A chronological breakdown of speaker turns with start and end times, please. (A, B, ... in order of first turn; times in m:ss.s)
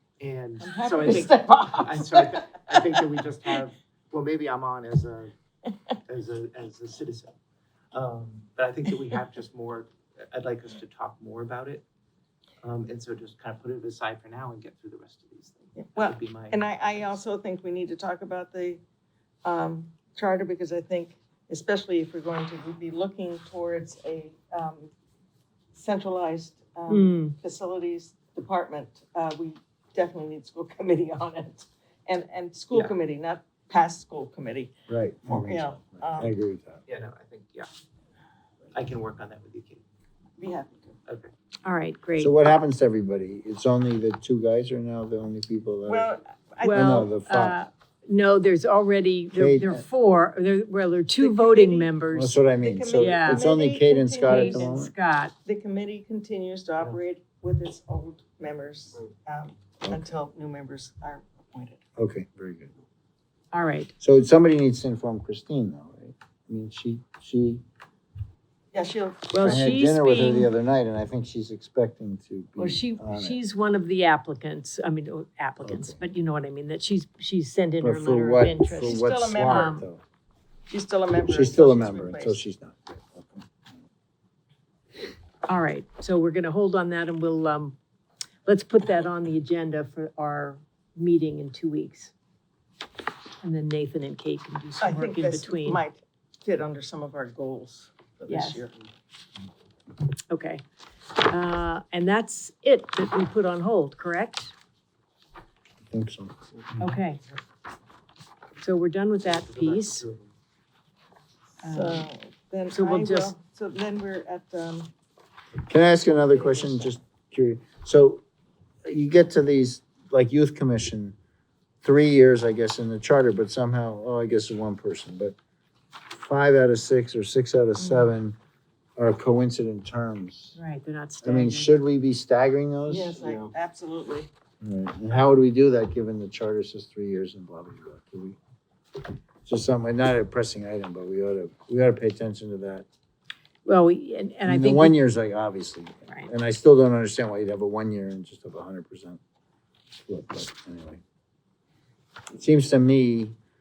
0:00.2-0:05.3 A
0:00.6-0:03.0 B
0:06.1-0:07.3 A
0:07.9-0:11.8 A
0:12.6-0:17.2 A
0:15.8-0:18.8 B
0:19.4-0:24.9 B
0:25.7-0:34.7 B
0:26.9-0:27.4 C
0:34.9-0:36.8 D
0:35.3-0:36.3 B
0:36.9-0:37.7 A
0:38.7-0:39.8 A
0:40.4-0:41.0 B
0:41.0-0:41.3 A
0:41.6-0:42.3 C
0:42.2-0:46.1 D
0:45.9-0:47.1 B
0:46.6-0:52.4 C
0:46.7-0:47.6 D
0:49.4-0:49.8 D
0:51.2-0:51.9 B
0:52.1-0:54.9 D
0:52.6-0:54.7 B
0:53.0-0:53.4 C
0:54.2-0:55.4 C
0:55.4-1:01.8 B
1:02.0-1:02.7 D
1:03.5-1:03.9 C
1:04.0-1:07.6 D
1:08.7-1:09.7 B
1:09.3-1:10.5 C
1:09.4-1:13.4 D
1:12.6-1:19.9 C
1:15.6-1:16.0 D
1:17.8-1:20.0 D
1:18.8-1:19.8 B
1:20.7-1:22.4 B
1:21.3-1:23.7 D
1:25.4-1:27.8 C
1:28.4-1:32.1 C
1:33.4-1:35.8 C
1:34.8-1:38.8 B
1:38.3-1:38.6 C
1:40.3-1:40.6 C
1:41.2-1:44.5 C
1:45.9-1:46.9 D
1:46.8-1:47.2 C
1:48.6-1:50.0 C
1:49.3-1:50.3 A
1:51.6-1:54.9 B
1:51.6-1:52.1 C
1:52.7-1:53.3 C
1:55.6-1:58.2 D
1:56.1-1:56.9 B
1:58.8-2:01.2 D
2:01.8-2:05.3 D
2:06.1-2:08.4 D
2:07.8-2:08.1 C
2:09.0-2:10.6 D
2:10.5-2:11.7 C
2:11.2-2:13.5 D
2:12.9-2:14.3 B
2:14.6-2:18.4 D
2:19.4-2:22.8 D
2:23.6-2:25.0 C
2:24.4-2:29.2 D
2:30.0-2:31.0 D
2:32.3-2:33.4 D